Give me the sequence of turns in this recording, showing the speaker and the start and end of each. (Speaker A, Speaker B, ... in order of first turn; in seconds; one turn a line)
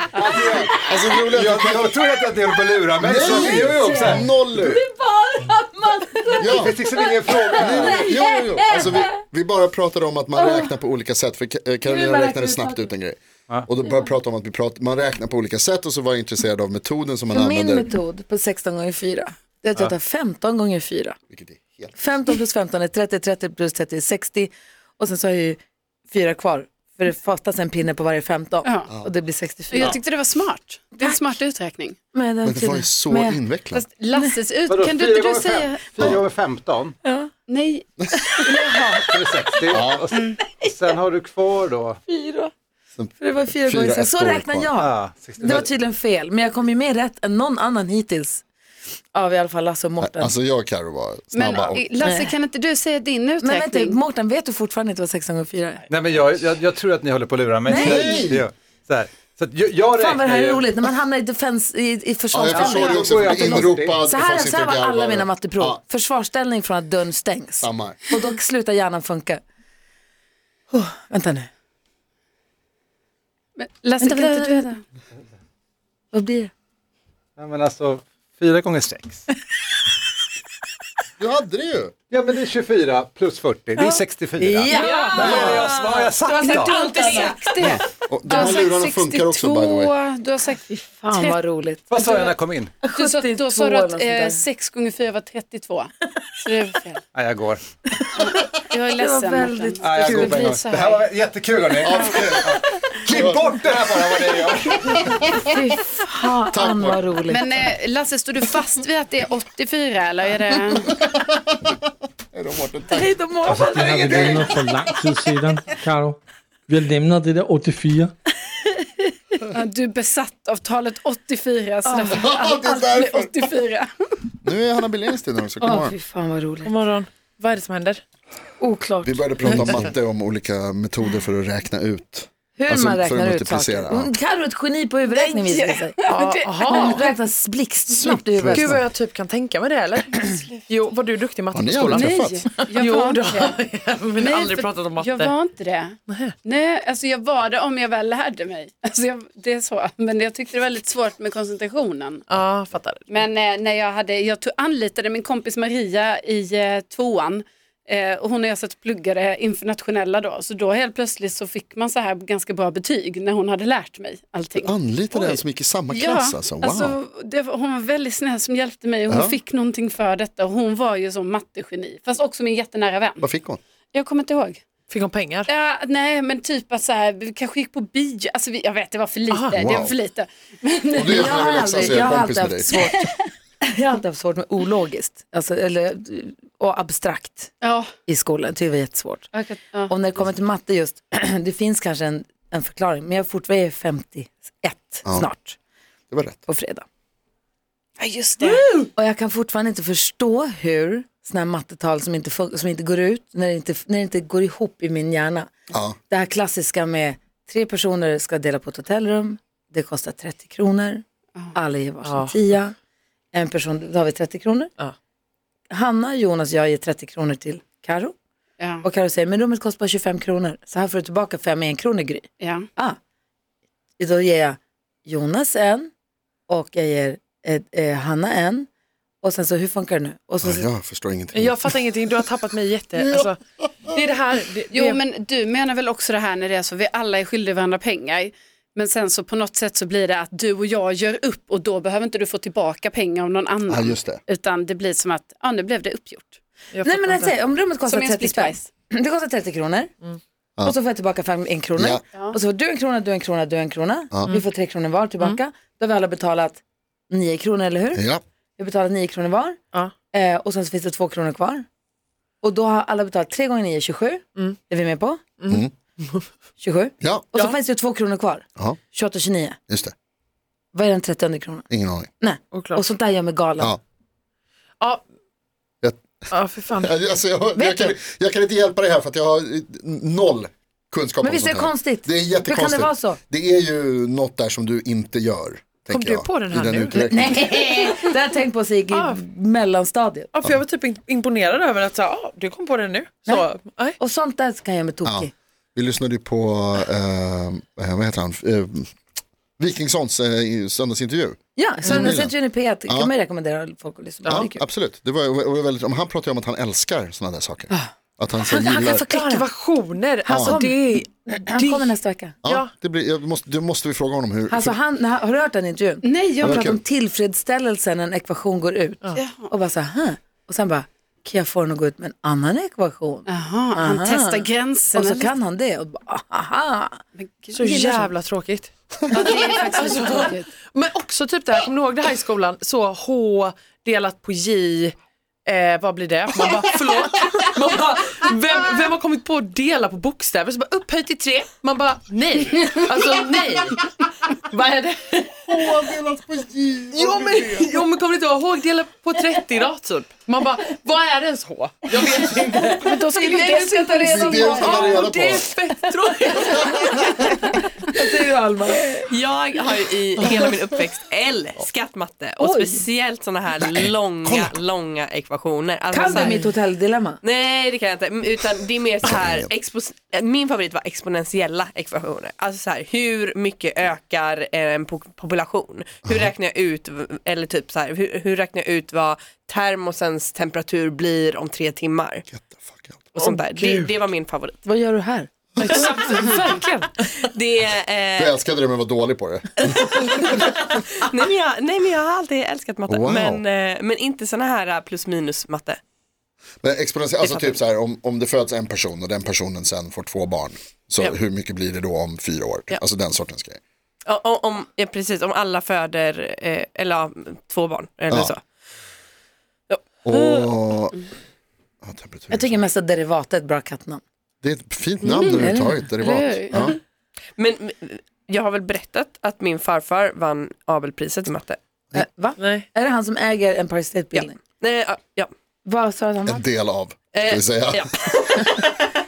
Speaker A: 0.2-0.7
Speaker B: 0.4-1.1
Speaker C: 0.8-1.9
Speaker A: 1.3-4.1
Speaker C: 3.0-4.8
Speaker B: 3.2-9.2
Speaker C: 6.4-6.8
Speaker A: 6.6-8.0
Speaker C: 7.5-17.9
Speaker B: 10.4-10.7
Speaker B: 11.8-12.9
Speaker B: 17.3-21.2
Speaker C: 21.3-21.9
Speaker B: 22.0-30.0
Speaker D: 29.7-32.0
Speaker B: 32.1-33.4
Speaker C: 32.5-33.8
Speaker D: 33.7-36.0
Speaker A: 34.7-37.0
Speaker B: 37.0-37.3
Speaker D: 37.5-38.8
Speaker B: 38.4-39.1
Speaker A: 39.1-40.1
Speaker C: 39.7-40.0
Speaker D: 40.1-40.4
Speaker A: 40.7-42.0
Speaker B: 42.1-42.5
Speaker C: 43.0-44.7
Speaker B: 43.2-48.4
Speaker A: 44.8-45.7
Speaker B: 49.1-50.4
Speaker C: 50.0-51.9
Speaker D: 51.3-54.0
Speaker B: 52.0-52.3
Speaker B: 53.4-55.8
Speaker A: 55.9-60.6
Speaker B: 57.7-58.3
Speaker C: 57.7-58.5
Speaker B: 60.0-69.4
Speaker C: 62.3-65.8
Speaker A: 62.5-64.0
Speaker E: 62.7-63.1
Speaker C: 67.6-68.0
Speaker B: 70.7-71.5
Speaker D: 73.6-74.8
Speaker B: 74.0-74.7
Speaker B: 76.1-76.5
Speaker A: 77.4-79.2
Speaker C: 81.2-81.9
Speaker A: 82.1-84.7
Speaker B: 83.8-85.5
Speaker D: 84.7-85.4
Speaker F: 85.0-87.5
Speaker C: 85.2-85.6
Speaker A: 85.3-86.6
Speaker D: 86.4-91.4
Speaker B: 86.5-87.3
Speaker C: 87.6-89.9
Speaker B: 90.7-94.4
Speaker A: 91.9-92.7
Speaker D: 92.0-92.3
Speaker D: 92.8-97.0
Speaker A: 97.2-97.6
Speaker B: 98.0-98.3
Speaker D: 98.2-101.1
Speaker B: 99.0-100.5
Speaker A: 99.8-101.8
Speaker C: 101.8-103.6
Speaker D: 101.8-102.2
Speaker A: 103.1-104.6
Speaker B: 105.4-107.6
Speaker C: 106.5-107.1
Speaker D: 107.3-110.9
Speaker C: 111.0-111.7
Speaker C: 112.3-113.2
Speaker B: 112.9-113.9
Speaker E: 113.5-118.1
Speaker A: 113.8-114.5
Speaker D: 119.5-124.1
Speaker B: 121.8-122.3
Speaker C: 122.1-123.3
Speaker C: 124.4-126.0
Speaker B: 125.6-126.7
Speaker G: 126.7-128.0
Speaker B: 128.6-129.9
Speaker C: 129.0-134.1
Speaker B: 132.6-136.0
Speaker D: 135.1-137.0
Speaker G: 136.1-137.1
Speaker B: 136.7-138.8
Speaker C: 137.9-138.8
Speaker G: 138.5-145.4
Speaker C: 141.5-142.5
Speaker D: 141.9-143.6
Speaker D: 144.2-152.2
Speaker G: 146.1-146.3
Speaker G: 152.3-153.2
Speaker D: 153.1-164.7
Speaker C: 164.6-167.0
Speaker D: 165.9-173.3
Speaker C: 169.1-169.4
Speaker C: 173.2-173.6
Speaker D: 173.9-174.6
Speaker G: 174.9-175.5
Speaker D: 175.5-182.1
Speaker G: 179.3-179.6
Speaker C: 179.6-180.0
Speaker C: 180.9-182.9
Speaker B: 181.1-183.1
Speaker B: 183.7-187.6
Speaker D: 187.6-187.9
Speaker B: 188.1-189.3
Speaker D: 189.3-189.9
Speaker B: 189.9-195.6
Speaker C: 196.1-196.4
Speaker B: 196.5-196.9
Speaker D: 198.0-198.7
Speaker B: 198.9-205.5
Speaker C: 205.7-206.0
Speaker B: 206.1-211.0
Speaker B: 211.5-212.8
Speaker G: 212.0-212.4
Speaker B: 213.3-214.7
Speaker B: 215.7-218.2
Speaker D: 218.6-218.8
Speaker B: 218.8-223.0
Speaker D: 222.4-222.7
Speaker B: 224.0-225.9
Speaker B: 226.5-228.7
Speaker B: 229.2-230.7
Speaker C: 230.4-231.7
Speaker G: 231.3-235.0
Speaker D: 234.7-246.4
Speaker C: 243.7-244.2
Speaker G: 246.7-247.3
Speaker B: 246.8-249.9
Speaker D: 247.9-248.6
Speaker B: 250.6-258.0
Speaker C: 251.8-252.0
Speaker C: 257.9-258.2
Speaker B: 258.6-259.6
Speaker B: 260.1-261.7
Speaker B: 262.4-265.2
Speaker G: 265.4-266.3
Speaker B: 266.6-269.6
Speaker C: 267.0-267.3
Speaker B: 270.7-271.7
Speaker C: 271.7-272.1
Speaker B: 272.2-273.8
Speaker G: 272.5-272.9
Speaker C: 275.8-276.2
Speaker G: 276.3-277.0
Speaker C: 276.8-287.6
Speaker B: 281.2-283.2
Speaker G: 285.9-287.6
Speaker B: 286.9-290.3
Speaker G: 288.9-289.2
Speaker G: 290.3-294.0
Speaker B: 294.0-295.3
Speaker C: 295.1-298.9
Speaker C: 299.6-302.4
Speaker B: 301.6-304.6
Speaker G: 301.9-302.1
Speaker C: 304.3-309.1
Speaker G: 308.5-311.9
Speaker B: 308.5-309.5
Speaker B: 310.2-312.4
Speaker C: 310.3-310.6
Speaker C: 312.4-314.8
Speaker G: 312.5-312.7
Speaker B: 314.5-327.0
Speaker D: 316.0-316.6
Speaker C: 316.4-316.8
Speaker D: 319.2-319.5
Speaker D: 323.3-325.4
Speaker D: 327.2-328.1
Speaker G: 327.5-334.9
Speaker D: 329.1-330.5
Speaker G: 335.5-343.9
Speaker G: 344.5-345.7
Speaker C: 345.5-347.7
Speaker G: 346.9-357.4
Speaker B: 352.5-355.1
Speaker D: 352.9-354.9
Speaker C: 354.0-355.5
Speaker B: 355.7-359.1
Speaker F: 359.1-366.6
Speaker B: 362.4-362.8
Speaker C: 363.6-364.6
Speaker B: 365.9-367.2
Speaker F: 367.2-382.2
Speaker C: 369.0-369.5
Speaker C: 382.3-383.1
Speaker F: 383.1-384.6
Speaker B: 384.6-386.5
Speaker C: 385.6-385.8
Speaker G: 385.6-386.9
Speaker F: 387.0-388.4
Speaker C: 388.2-390.1
Speaker F: 389.6-395.8
Speaker C: 392.9-393.4
Speaker C: 396.6-403.6
Speaker F: 397.2-397.6
Speaker F: 404.1-408.4
Speaker C: 410.0-411.0
Speaker C: 411.8-412.6
Speaker B: 412.3-414.0
Speaker C: 414.4-416.8
Speaker D: 415.0-415.5
Speaker B: 415.2-416.7
Speaker D: 416.0-416.7
Speaker F: 417.4-421.6
Speaker B: 421.9-424.4
Speaker G: 422.4-422.7
Speaker F: 424.1-425.3
Speaker B: 425.6-426.4
Speaker C: 426.3-428.4
Speaker F: 427.1-428.9